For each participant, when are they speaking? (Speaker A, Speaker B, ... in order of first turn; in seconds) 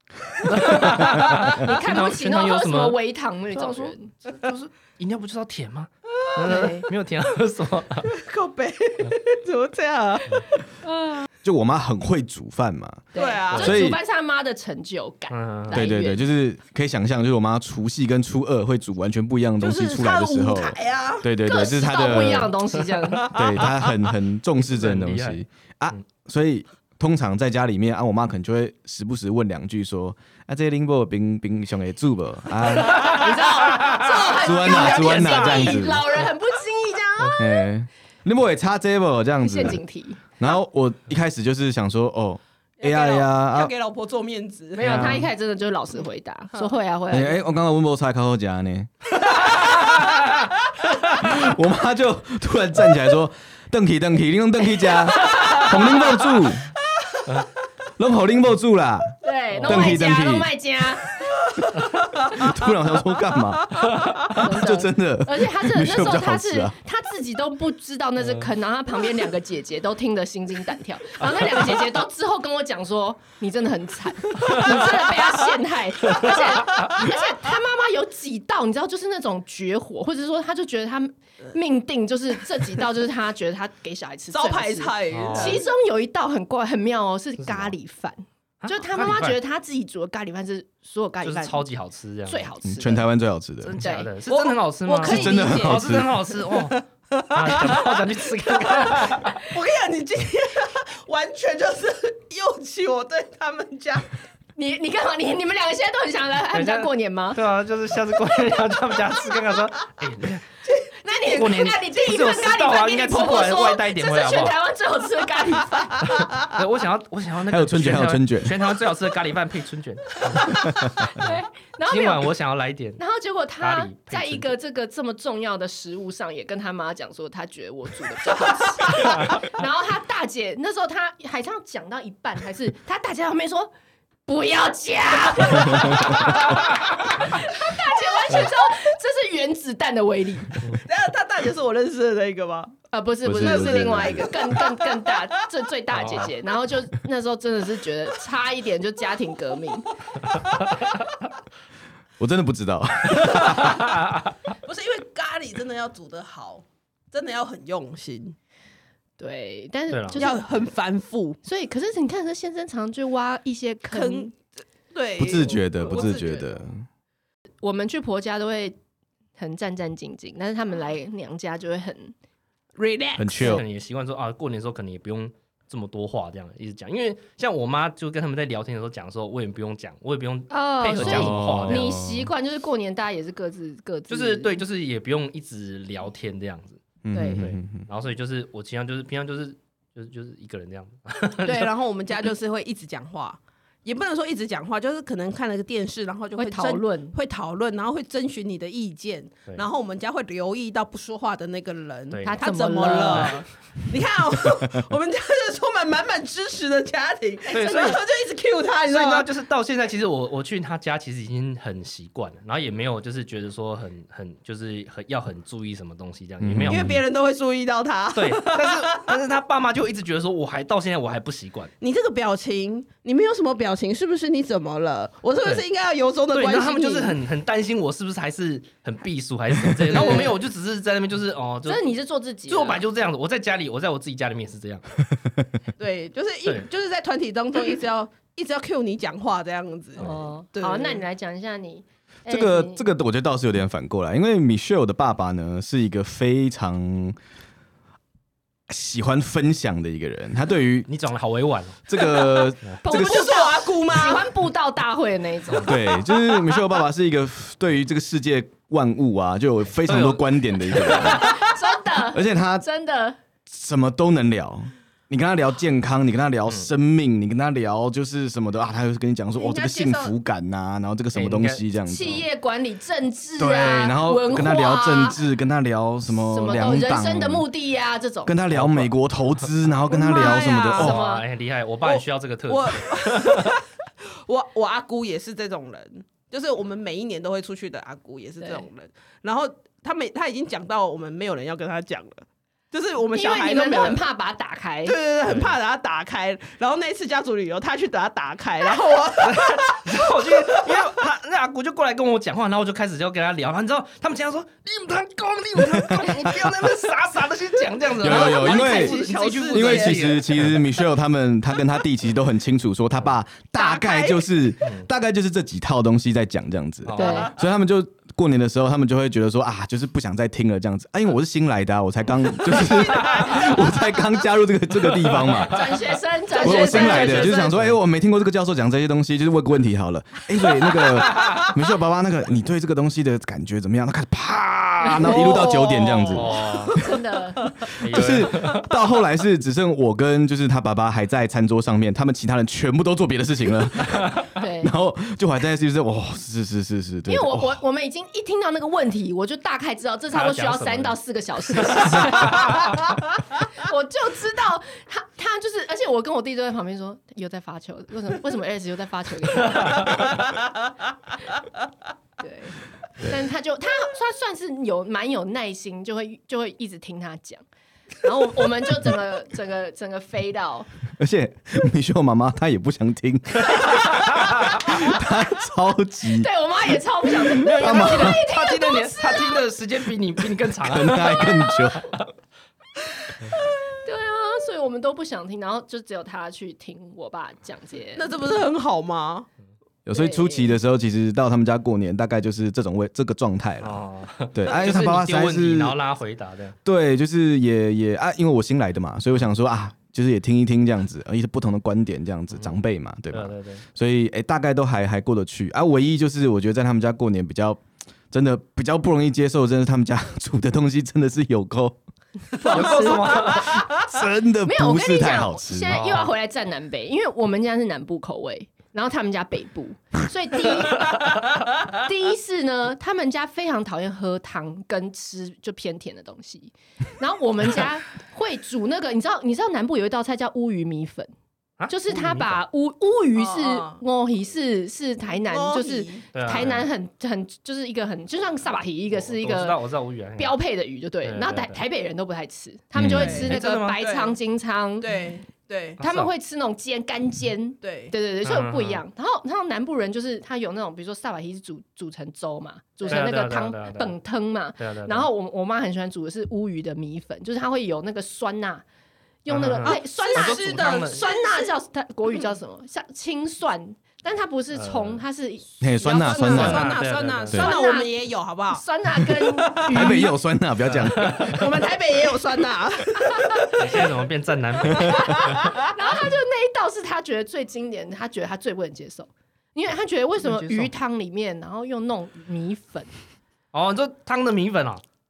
Speaker A: 0.4-3.0, 3.5-8.1, 13.5-13.8, 15.3-15.8, 24.6-25.4, 44.8-45.2, 59.5-60.0, 68.2-68.5, 85.1-85.6, 87.4-87.7, 88.6-89.4, 91.2-92.5, 93.6-96.8, 97.3-99.4, 106.5-110.5, 111.2-114.6, 116.0-121.3, 121.9-123.0, 123.6-124.5, 145.9-146.3, 153.4-154.3, 159.9-160.2, 173.3-181.9, 184.1-186.8, 187.4-191.7, 202.1-203.3, 207.5-208.0, 208.8-216.9, 218.1-221.7, 226.3-231.9, 232.5-234.8, 250.9-252.8, 259.8-261.4, 271.1-272.2, 278.5-278.9, 280.7-283.6, 295.2-295.6, 299.2-310.6, 314.6-314.9, 316.8-317.3, 322.4-323.7, 324.8-325.8, 326.5-327.8, 330.8-331.5, 336.1-336.8, 337.8-338.7, 350.1-353.0, 359.5-360.0, 373.5-374.6, 377.4-382.0, 393.6-396.6, 403.1-403.6, 412.5-413.6, 415.7-416.1, 431.6-432.4, 436.1-436.7, 438.9-440.4, 441.0-441.6, 443.0-443.8, 445.8-446.1, 448.2-448.8, 452.9-453.9, 454.6-455.1, 459.3-461.0, 464.5-465.0, 466.2-467.5, 470.6-471.4, 473.5-475.5, 480.2-480.7, 483.5-484.8
Speaker B: 0.6-4.1, 6.4-6.9, 10.8-11.2, 13.1-16.2, 21.4-23.4, 33.0-37.7, 39.4-40.2, 44.8-47.4, 55.2-55.6, 59.2-61.2, 64.3-91.6, 92.2-93.1, 93.8-94.1, 104.5-107.4, 111.0-116.2, 121.0-122.3, 123.0-133.7, 134.2-140.7, 142.9-149.9, 159.2-160.4, 161.4-164.3, 167.6-168.8, 169.3-172.1, 180.5-184.6, 187.1-187.4, 196.4-197.1, 202.2-203.4, 230.0-230.3, 231.6-232.8, 240.0-242.8, 252.8-255.8, 260.8-263.2, 271.8-275.2, 276.2-278.3, 279.9-281.2, 288.4-288.6, 293.1-294.9, 316.9-317.3, 325.4-327.6, 334.8-335.5, 336.7-337.4, 344.4-344.7, 347.1-360.2, 362.2-367.4, 368.0-370.7, 376.1-379.4, 383.8-388.1, 389.9-390.6, 412.4-413.4, 414.4-421.0, 421.7-431.1, 431.7-439.6, 440.2-444.9, 445.8-458.6, 459.2-466.7, 467.3-470.1, 474.7-482.9
Speaker C: 8.1-10.6, 13.1-13.9, 19.6-21.3, 23.3-23.6, 33.7-35.9, 42.8-45.1, 49.4-49.7, 62.2-62.5, 84.3-85.7, 94.3-104.1, 110.6-111.6, 140.8-142.8, 143.3-145.2, 154.6-158.3, 160.1-161.4, 163.9-164.3, 164.9-166.5, 172.8-173.5, 191.4-209.3, 216.7-219.2, 221.8-227.2, 229.9-230.4, 235.8-241.0, 252.2-254.3, 269.4-270.1, 279.9-280.9, 281.8-294.0, 294.8-300.9, 308.0-310.3, 313.6-314.3, 326.4-327.0, 331.2-331.4, 334.9-336.9, 387.9-389.3, 412.7-413.6, 433.1-433.8, 435.3-436.1, 442.9-444.2, 444.8-445.8, 447.6-447.9, 459.6-461.5, 466.1-470.0, 471.2-473.8
Speaker D: 11.4-14.0, 15.7-22.5, 23.3-33.4, 34.3-36.0, 37.4-39.8, 40.4-43.7, 44.8-45.3, 47.1-49.1, 51.1-56.7, 58.0-60.5, 62.2-66.8, 92.6-93.8, 95.0-96.1, 117.5-118.6, 120.6-121.0, 143.2-144.3, 152.2-153.8, 165.2-166.8, 173.2-173.6, 181.0-182.3, 187.0-187.8, 216.4-217.0, 242.3-247.2, 248.7-250.9, 251.9-253.4, 255.6-261.4, 262.1-262.6, 263.5-272.2, 273.4-277.5, 278.2-281.0, 305.7-306.5, 308.0-309.0, 309.5-325.7, 326.4-336.8, 337.7-347.6, 370.9-378.2, 380.6-381.9, 389.8-393.8, 394.3-395.8, 396.6-411.8, 413.3-415.9, 442.7-443.2, 465.6-466.7, 469.7-471.4, 474.7-475.2